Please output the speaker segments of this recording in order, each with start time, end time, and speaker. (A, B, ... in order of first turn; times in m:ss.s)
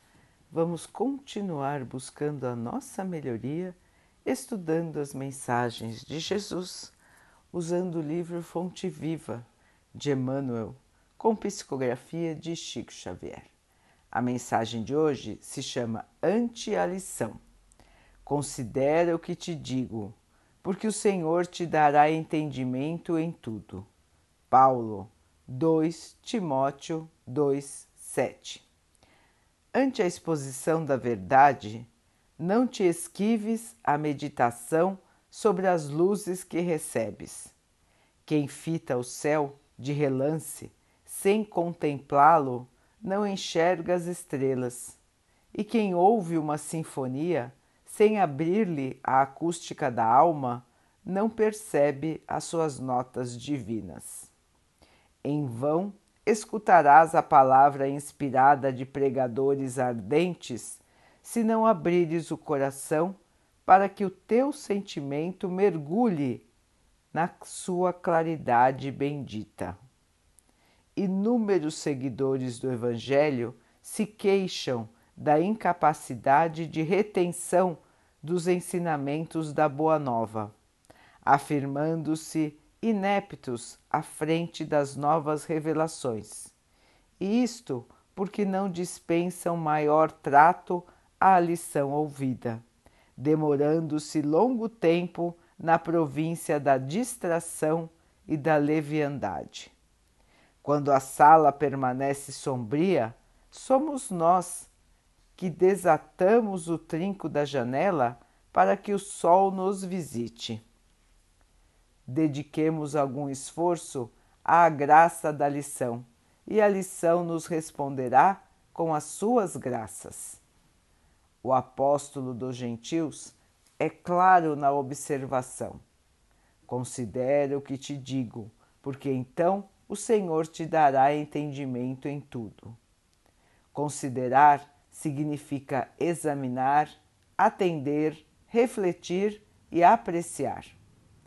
0:00.5-0:07.0 A
0:07.5-0:13.5 A
0:14.1-0:17.4 A
0:18.2-0:23.9 A
0:24.5-0:28.6 A
0:29.7-0:37.5 A
0:38.2-0:45.0 A
0:45.5-0:54.3 A
0:55.2-1:06.5 A
1:07.1-1:09.8 A
1:11.0-1:20.5 A
1:21.2-1:26.5 A
1:27.2-1:32.6 A
1:33.2-1:39.8 A
1:40.6-1:44.7 A
1:45.4-1:50.6 A
1:52.1-2:00.4 A
2:01.4-2:05.8 A
2:06.7-2:12.8 A
2:13.7-2:20.8 A